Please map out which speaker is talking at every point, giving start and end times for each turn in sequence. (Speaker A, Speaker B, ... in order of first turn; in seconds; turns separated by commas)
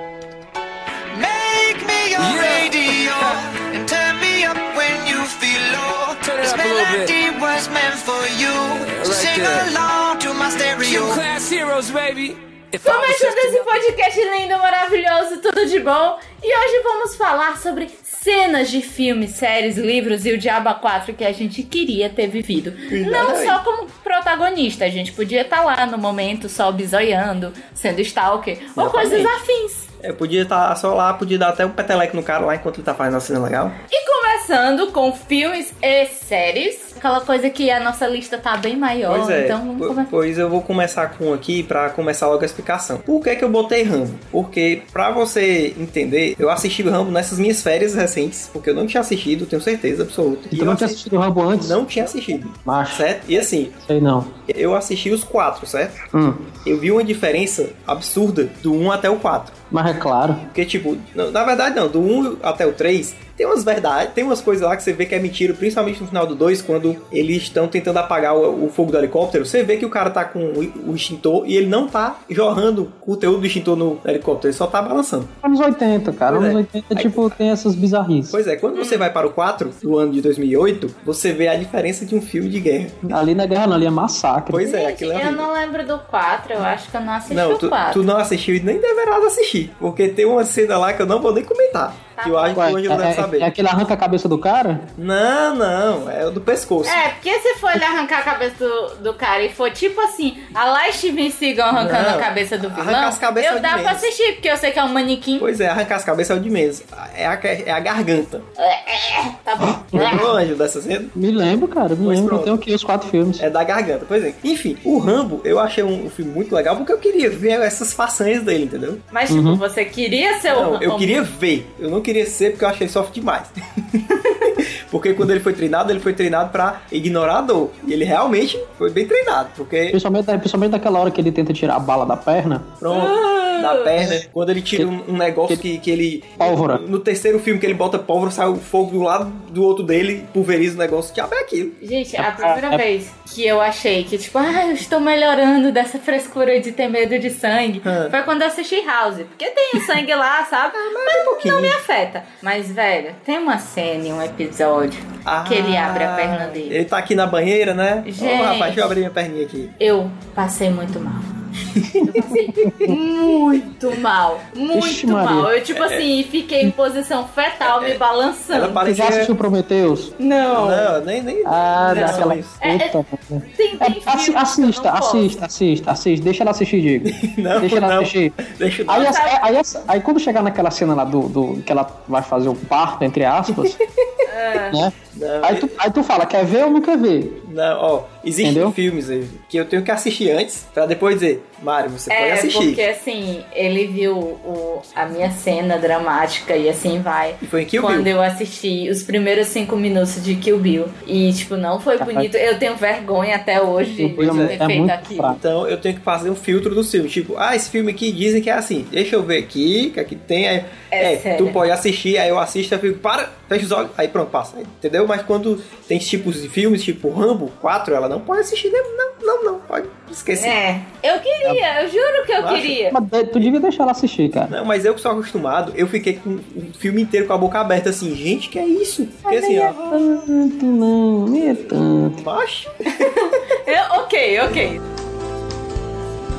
Speaker A: 1.1-11.3, Speaker B: 2.2-3.4, Speaker B: 6.2-7.2, Speaker B: 8.8-9.7, Speaker B: 10.8-13.8, Speaker C: 12.8-29.9, Speaker D: 22.9-23.6, Speaker D: 28.8-29.4, Speaker D: 30.0-33.8, Speaker C: 33.9-40.1, Speaker D: 39.1-51.0, Speaker E: 50.5-51.9, Speaker D: 51.5-53.7, Speaker E: 52.6-53.0, Speaker E: 53.8-54.4, Speaker D: 54.5-56.1, Speaker E: 56.1-56.6, Speaker D: 56.6-59.6, Speaker E: 59.7-60.5, Speaker D: 60.5-75.3, Speaker E: 75.4-78.4, Speaker D: 76.3-77.4, Speaker D: 78.3-83.1, Speaker C: 78.8-79.0, Speaker E: 83.1-84.7, Speaker D: 84.5-85.5, Speaker C: 84.6-88.0, Speaker D: 87.3-93.5, Speaker C: 92.2-92.7, Speaker E: 92.5-94.9, Speaker D: 95.0-97.0, Speaker C: 96.8-105.5, Speaker D: 101.7-104.1, Speaker D: 105.4-108.5, Speaker C: 108.6-110.2, Speaker E: 109.9-110.3, Speaker D: 109.9-111.1, Speaker E: 111.1-113.4, Speaker D: 112.0-112.6, Speaker D: 113.4-119.0, Speaker C: 119.1-121.2, Speaker E: 119.3-119.6, Speaker D: 120.5-130.0, Speaker C: 124.2-124.5, Speaker E: 129.9-132.8, Speaker D: 132.8-141.8, Speaker C: 132.9-133.9, Speaker E: 136.4-136.8, Speaker C: 141.8-156.8, Speaker E: 142.2-142.8, Speaker D: 147.8-148.1, Speaker D: 150.8-151.8, Speaker D: 155.2-159.7, Speaker C: 158.0-158.9, Speaker C: 159.8-161.4, Speaker D: 161.8-162.2, Speaker C: 161.9-168.8, Speaker E: 162.6-162.9, Speaker E: 164.7-165.5, Speaker D: 165.7-166.0, Speaker D: 167.6-168.0, Speaker D: 168.5-169.3, Speaker E: 168.8-170.1, Speaker C: 170.2-171.0, Speaker D: 170.5-172.6, Speaker E: 171.4-178.3, Speaker C: 171.8-172.9, Speaker C: 173.5-175.4, Speaker D: 177.0-179.2, Speaker E: 178.9-183.8, Speaker C: 178.9-179.4, Speaker C: 184.2-184.8, Speaker E: 184.7-187.4, Speaker D: 185.1-185.8, Speaker D: 187.4-192.8, Speaker E: 188.4-188.8, Speaker C: 192.1-205.4, Speaker D: 197.4-198.1, Speaker E: 202.0-202.3, Speaker E: 204.0-205.4, Speaker D: 204.2-204.6, Speaker D: 205.4-220.6, Speaker C: 210.9-211.6, Speaker C: 220.3-222.9, Speaker D: 222.4-222.8, Speaker E: 222.9-224.6, Speaker D: 224.5-230.0, Speaker E: 229.3-232.2, Speaker D: 232.0-233.3, Speaker C: 232.9-234.8